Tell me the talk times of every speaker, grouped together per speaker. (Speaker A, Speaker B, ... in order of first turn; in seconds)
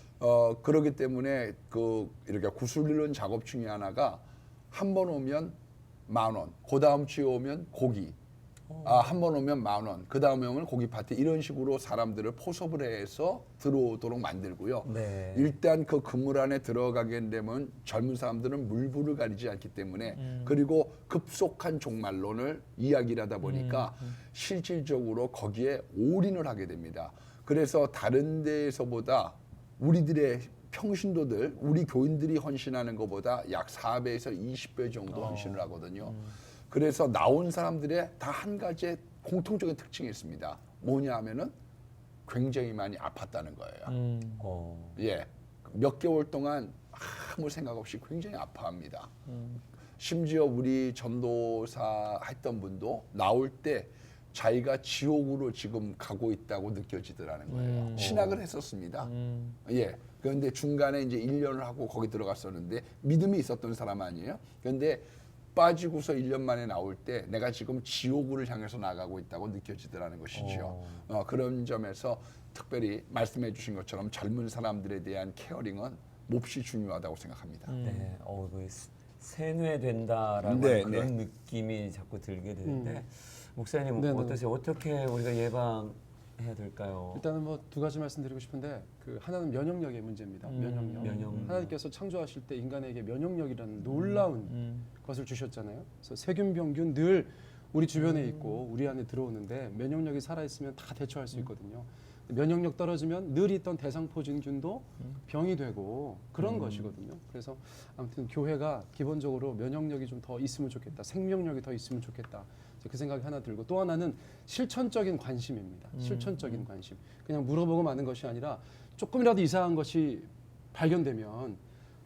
Speaker A: 0.2-8.1, 8.8-41.5, 42.2-43.9, 45.0-49.1, 50.0-59.1, 59.6-77.7, 80.4-81.1
Speaker B: 8.7-9.1, 14.8-15.5, 44.4-45.0, 58.0-58.4, 70.3-71.0, 77.8-87.2, 91.0-91.7, 106.4-106.9
Speaker C: 20.2-20.6, 23.4-24.1, 35.1-36.3, 43.9-44.5, 49.3-49.6, 57.5-58.3, 59.0-59.6, 77.7-78.1, 90.4-91.6, 93.8-94.9, 98.0-98.6, 115.9-116.7
Speaker D: 82.6-83.0, 84.0-84.4, 87.1-121.6